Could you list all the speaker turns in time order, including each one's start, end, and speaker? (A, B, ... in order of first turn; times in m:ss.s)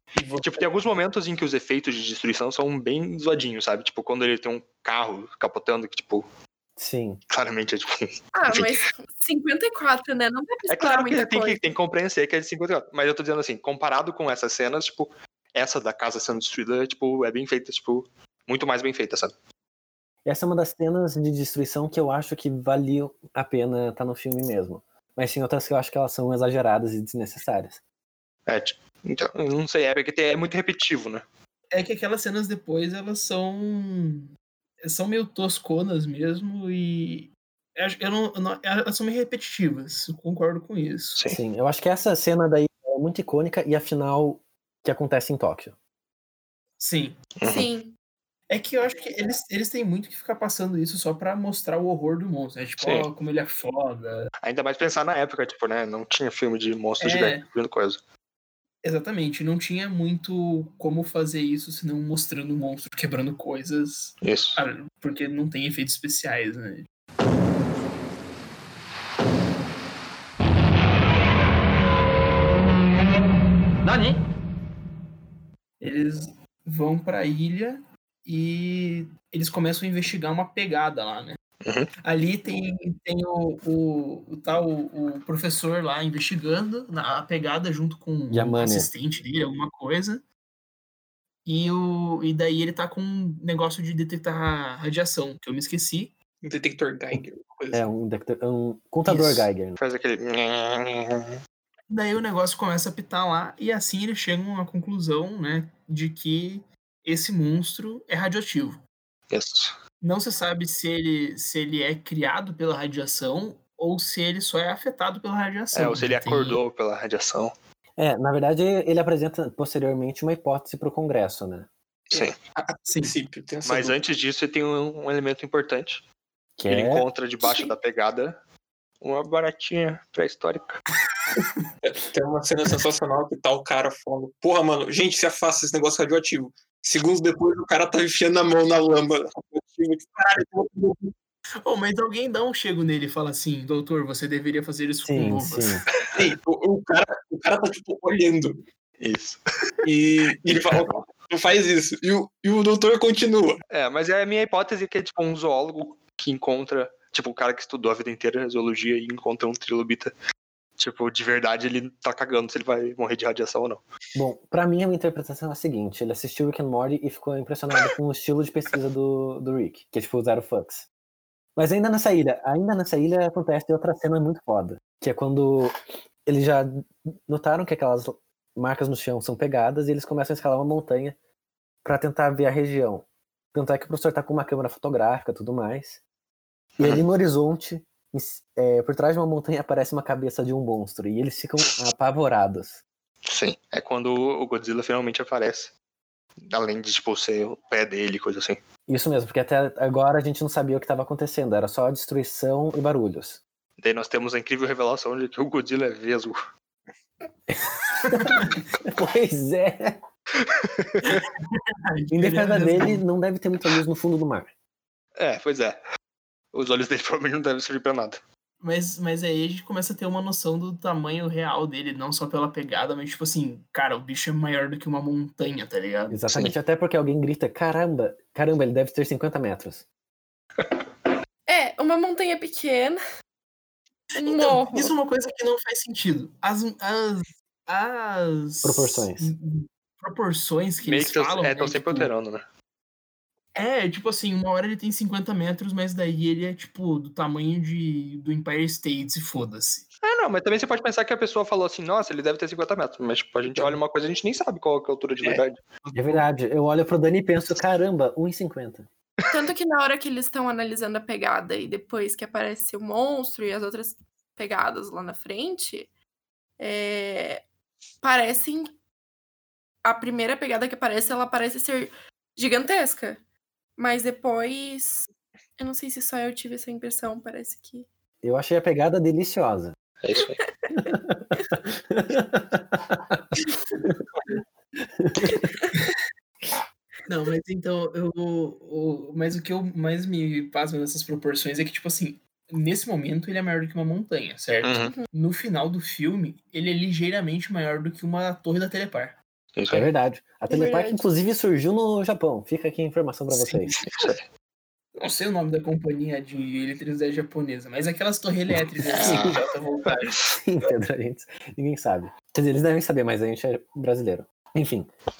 0:00.2-0:00.6 A
0:00.4-0:06.3 B
0:06.8-0:07.2 C
0:07.3-0:08.8 B
0:08.3-0:11.6 D
0:10.7-0:19.3 B
0:20.2-0:27.8 C
0:28.5-0:31.2 B
0:31.7-0:34.3 A
0:34.8-0:41.2 A
0:41.3-0:45.7 C
0:46.8-0:47.2 A
0:47.4-0:47.7 B
0:47.4-0:47.9 D
0:48.5-0:54.3 A
0:52.8-0:53.1 B
0:54.4-0:58.0 B
0:57.0-0:57.4 A
0:58.8-1:06.8 A
1:04.2-1:04.6 B
1:15.8-1:21.4 A
1:21.6-1:21.9 B
1:22.0-1:30.2 A
1:28.3-1:28.9 C
1:31.4-1:36.1 A
1:36.4-1:37.8 E
1:37.7-1:39.8 C
1:39.0-1:39.5 A
1:39.8-1:41.4 B
1:41.9-1:48.8 A
1:49.3-1:49.8 B
1:50.0-1:56.6 A
1:55.7-1:57.5 B
1:58.0-2:01.7 C
2:02.1-2:02.4 B
2:02.9-2:03.1 A
2:03.0-2:03.9 E
2:03.6-2:06.0 B
2:06.6-2:07.0 C
2:06.7-2:08.4 B
2:09.0-2:10.8 B
2:11.8-2:21.1 E
2:21.6-2:25.8 A
2:25.0-2:25.8 C
2:26.1-2:28.6 E
2:29.0-2:29.4 B
2:29.8-2:33.6 E
2:30.2-2:30.4 A
2:33.7-2:40.1 B
2:40.8-2:43.8 B
2:44.1-2:50.8 C
2:51.6-3:01.2 C
3:01.8-3:06.0 C
3:06.8-3:07.0 B
3:06.8-3:12.8 C
3:13.2-3:15.7 B
3:16.4-3:18.6 B
3:18.9-3:23.4 C
3:23.8-3:26.4 B
3:27.5-3:30.0 C
3:28.1-3:28.6 A
3:30.4-3:31.0 B
3:31.0-3:33.0 A
3:32.1-3:34.5 C
3:35.2-3:35.8 B
3:36.5-3:38.2 B
3:38.6-3:46.5 A
3:46.1-3:49.8 C
3:51.5-3:53.0 D
3:54.2-3:54.9 D
3:54.2-4:02.1 A
3:58.6-3:59.3 C
4:00.8-4:02.4 B
4:03.5-4:09.8 A
4:10.0-4:15.6 B
4:13.5-4:13.8 E
4:15.2-4:16.2 A
4:15.9-4:18.9 C
4:19.3-4:25.9 D
4:26.6-4:27.4 D
4:28.0-4:28.7 D
4:29.8-4:33.2 D
4:33.8-4:37.9 D
4:38.2-4:39.7 C
4:40.0-4:40.4 B
4:40.7-4:43.2 C
4:45.0-4:45.4 C
4:45.2-4:45.7 D
4:47.1-4:59.2 A
4:54.6-4:54.9 B
4:54.8-4:55.1 D
4:59.6-4:59.9 B
4:59.7-5:03.7 C
5:00.5-5:01.0 D
5:03.3-5:04.1 A
5:03.8-5:04.2 B
5:05.0-5:10.2 A
5:08.9-5:09.4 B
5:10.3-5:14.9 C